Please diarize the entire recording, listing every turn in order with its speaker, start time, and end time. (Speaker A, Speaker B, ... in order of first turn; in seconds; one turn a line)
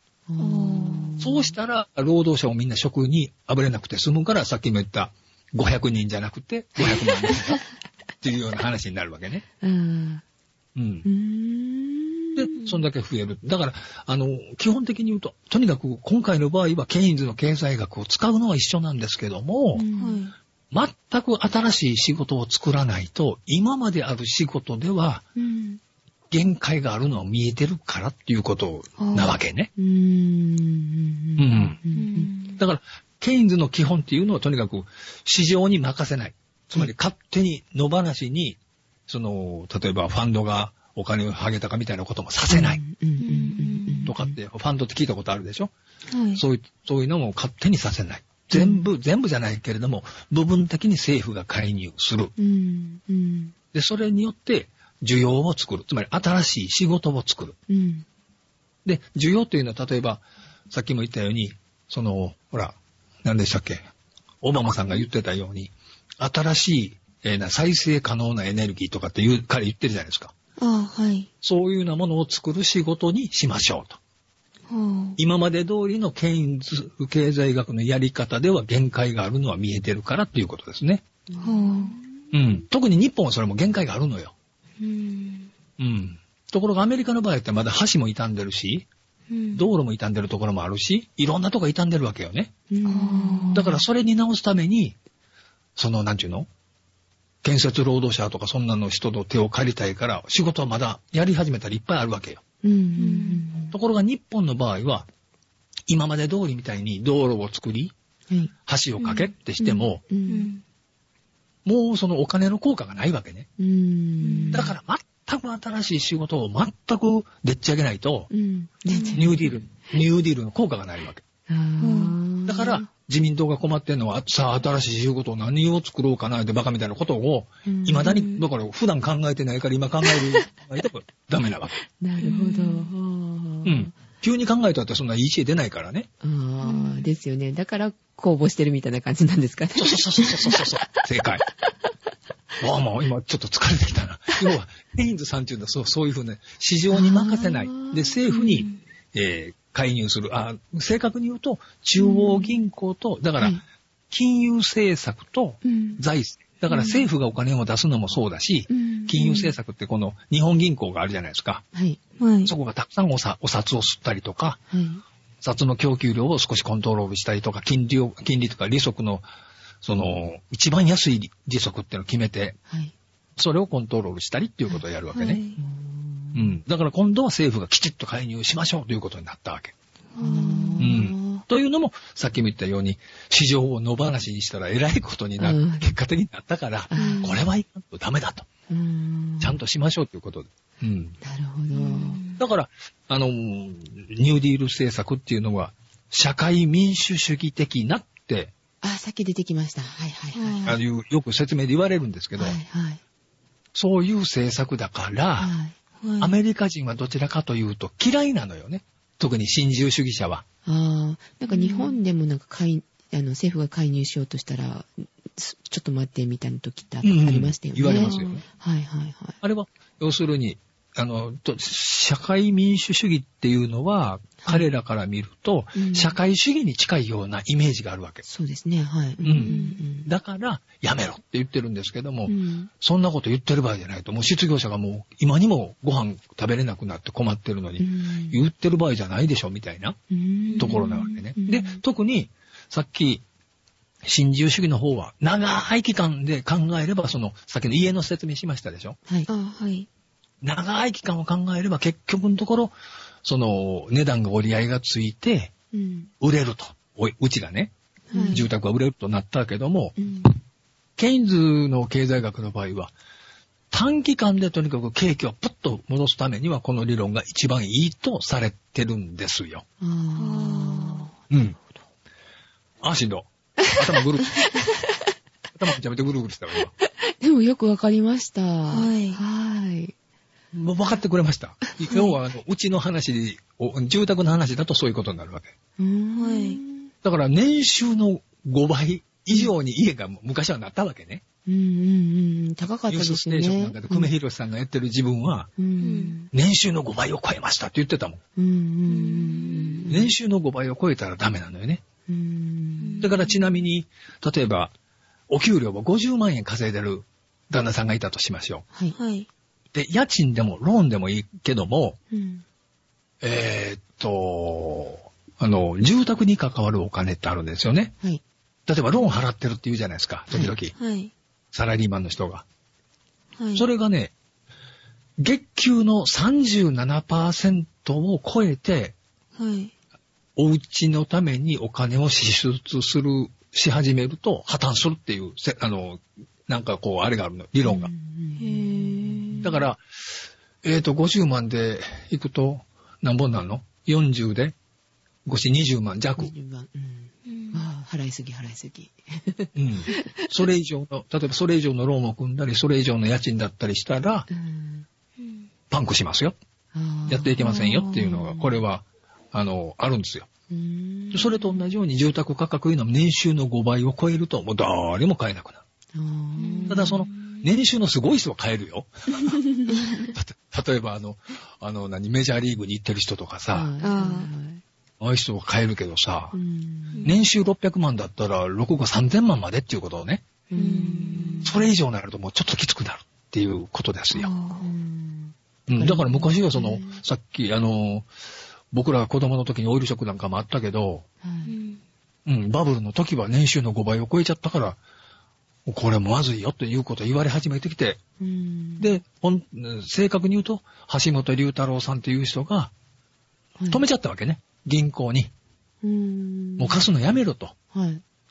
Speaker A: 0.3-1.5
Speaker B: 0.4-1.1
Speaker C: 1.2-7.6
Speaker C: 8.2-9.4
Speaker A: 9.6-10.2
Speaker C: 10.7-11.1
Speaker A: 11.0-12.7
Speaker C: 12.3-19.8
Speaker A: 19.7-20.2
Speaker B: 19.9-20.3
Speaker C: 20.7-25.2
Speaker A: 25.4-25.8
Speaker C: 26.3-29.7
Speaker B: 29.0-29.4
Speaker A: 29.8-32.3
Speaker C: 31.4-31.8
Speaker B: 31.9-32.6
Speaker C: 32.6-42.8
Speaker A: 42.5-44.4
Speaker B: 43.2-44.1
Speaker C: 44.0-45.7
Speaker B: 46.1-46.4
Speaker C: 46.3-52.3
Speaker A: 48.5-48.8
Speaker A: 52.4-53.5
Speaker C: 53.7-57.5
Speaker A: 57.7-58.0
Speaker C: 58.8-63.9
Speaker C: 64.4-70.3
Speaker B: 70.6-71.3
Speaker C: 71.4-74.0
Speaker B: 74.7-75.2
Speaker C: 75.2-81.0
Speaker A: 81.3-82.2
Speaker B: 81.4-82.0
Speaker C: 82.3-84.3
Speaker B: 84.8-85.5
Speaker C: 85.8-88.9
Speaker B: 89.3-89.7
Speaker C: 89.5-92.5
Speaker A: 92.7-93.8
Speaker B: 92.8-93.7
Speaker C: 93.5-95.0
Speaker C: 95.8-96.5
Speaker C: 97.4-102.4
Speaker A: 102.6-103.7
Speaker B: 103.0-103.5
Speaker C: 103.7-105.0
Speaker C: 105.9-107.9
Speaker C: 108.7-110.0
Speaker B: 109.0-109.3
Speaker A: 109.6-110.5
Speaker B: 110.2-110.6
Speaker C: 111.6-113.5
Speaker A: 113.6-114.7
Speaker B: 114.2-114.7
Speaker C: 114.5-118.3
Speaker A: 118.3-119.5
Speaker B: 118.9-119.2
Speaker C: 119.1-121.2
Speaker A: 121.5-122.9
Speaker B: 121.8-122.1
Speaker C: 122.5-131.8
Speaker A: 127.7-128.2
Speaker B: 128.1-128.4
Speaker A: 132.0-133.9
Speaker B: 132.2-132.9
Speaker C: 133.6-136.1
Speaker A: 136.2-141.0
Speaker B: 136.6-137.1
Speaker C: 139.8-141.4
Speaker C: 142.6-153.6
Speaker A: 146.9-148.5
Speaker B: 148.3-148.8
Speaker A: 152.0-152.5
Speaker C: 154.1-161.6
Speaker A: 155.6-156.0
Speaker B: 156.7-157.0
Speaker A: 158.7-159.5
Speaker A: 161.7-162.0
Speaker B: 162.2-162.5
Speaker C: 162.4-164.6
Speaker A: 164.7-165.0
Speaker C: 165.4-169.2
Speaker C: 169.8-172.6
Speaker A: 172.7-172.9
Speaker C: 173.4-175.4
Speaker B: 175.1-175.6
Speaker A: 175.6-176.6
Speaker C: 176.3-179.7
Speaker B: 180.1-180.9
Speaker A: 180.2-181.4
Speaker C: 180.8-188.5
Speaker A: 185.4-185.9
Speaker A: 186.9-187.4
Speaker B: 187.0-187.3
Speaker A: 188.7-189.6
Speaker C: 189.4-191.2
Speaker A: 191.2-192.2
Speaker B: 191.7-192.4
Speaker C: 192.4-198.5
Speaker A: 198.8-200.8
Speaker B: 200.3-200.8
Speaker C: 200.6-202.6
Speaker A: 202.4-203.0
Speaker C: 203.7-205.5
Speaker A: 205.4-205.7
Speaker B: 206.0-206.4
Speaker C: 206.2-210.4
Speaker A: 210.6-219.4
Speaker B: 211.5-212.0
Speaker C: 217.0-218.4
Speaker C: 219.4-228.2
Speaker A: 225.7-226.2
Speaker A: 228.2-230.1
Speaker C: 229.2-240.0
Speaker B: 229.3-229.8
Speaker A: 232.2-232.7
Speaker A: 237.8-238.4
Speaker A: 240.1-241.8
Speaker B: 240.4-241.2
Speaker C: 240.6-243.2
Speaker C: 244.0-249.0
Speaker B: 249.3-249.9
Speaker C: 250.4-252.7
Speaker C: 253.2-255.5
Speaker A: 255.7-256.1
Speaker C: 256.2-257.7
Speaker A: 258.1-258.5
Speaker B: 258.1-258.4
Speaker C: 258.3-260.0
Speaker A: 260.0-260.3
Speaker C: 261.0-262.9
Speaker C: 263.7-269.6
Speaker A: 269.8-271.8
Speaker B: 270.2-271.1
Speaker C: 271.3-271.6
Speaker C: 272.8-274.4
Speaker C: 275.5-276.7
Speaker A: 277.0-279.9
Speaker B: 278.7-279.2
Speaker C: 280.5-285.5
Speaker A: 281.8-282.2
Speaker A: 285.8-286.9
Speaker B: 286.1-286.6
Speaker C: 287.0-291.2
Speaker A: 291.4-294.1
Speaker C: 292.9-295.5
Speaker A: 295.6-296.3
Speaker B: 295.8-296.1
Speaker C: 296.3-298.2
Speaker A: 298.4-300.1
Speaker B: 298.9-299.9
Speaker C: 299.9-301.8
Speaker A: 302.1-303.1
Speaker B: 302.8-303.2
Speaker C: 303.0-304.7
Speaker C: 305.3-308.6
Speaker B: 308.9-309.3
Speaker C: 309.7-312.0
Speaker A: 312.1-312.4
Speaker C: 313.2-317.9
Speaker C: 318.7-320.7
Speaker A: 320.3-320.6
Speaker B: 320.8-321.1
Speaker C: 321.5-322.4
Speaker B: 323.4-323.6
Speaker C: 323.5-324.1
Speaker C: 325.2-328.9
Speaker B: 329.3-329.7
Speaker C: 330.4-337.9
Speaker A: 337.6-339.6
Speaker B: 338.4-339.5
Speaker C: 339.4-339.8
Speaker C: 340.6-344.5
Speaker C: 345.2-346.3
Speaker A: 346.2-350.3
Speaker B: 347.2-347.6
Speaker C: 349.6-354.3
Speaker A: 354.3-354.9
Speaker B: 355.2-355.5
Speaker C: 355.7-356.3
Speaker A: 356.7-358.6
Speaker C: 357.1-360.3
Speaker B: 357.4-358.3
Speaker A: 360.5-361.6
Speaker C: 361.1-365.6
Speaker A: 365.9-367.1
Speaker B: 366.4-367.5
Speaker C: 366.7-369.4
Speaker A: 369.2-370.1
Speaker C: 370.0-373.7
Speaker A: 373.5-374.6
Speaker B: 373.8-374.3
Speaker C: 375.0-376.3
Speaker A: 376.3-377.1
Speaker C: 377.0-380.2
Speaker A: 380.5-381.7
Speaker B: 380.6-381.6
Speaker C: 381.4-384.3
Speaker B: 384.1-384.7
Speaker A: 384.5-387.0
Speaker C: 385.7-388.1
Speaker C: 388.7-391.0
Speaker A: 391.2-391.5
Speaker B: 391.4-391.8
Speaker C: 392.2-394.8
Speaker C: 395.6-398.0
Speaker A: 398.2-398.9
Speaker C: 398.8-402.7
Speaker A: 403.6-403.8
Speaker C: 403.7-405.3
Speaker A: 405.8-406.8
Speaker C: 406.6-407.5
Speaker A: 407.7-408.0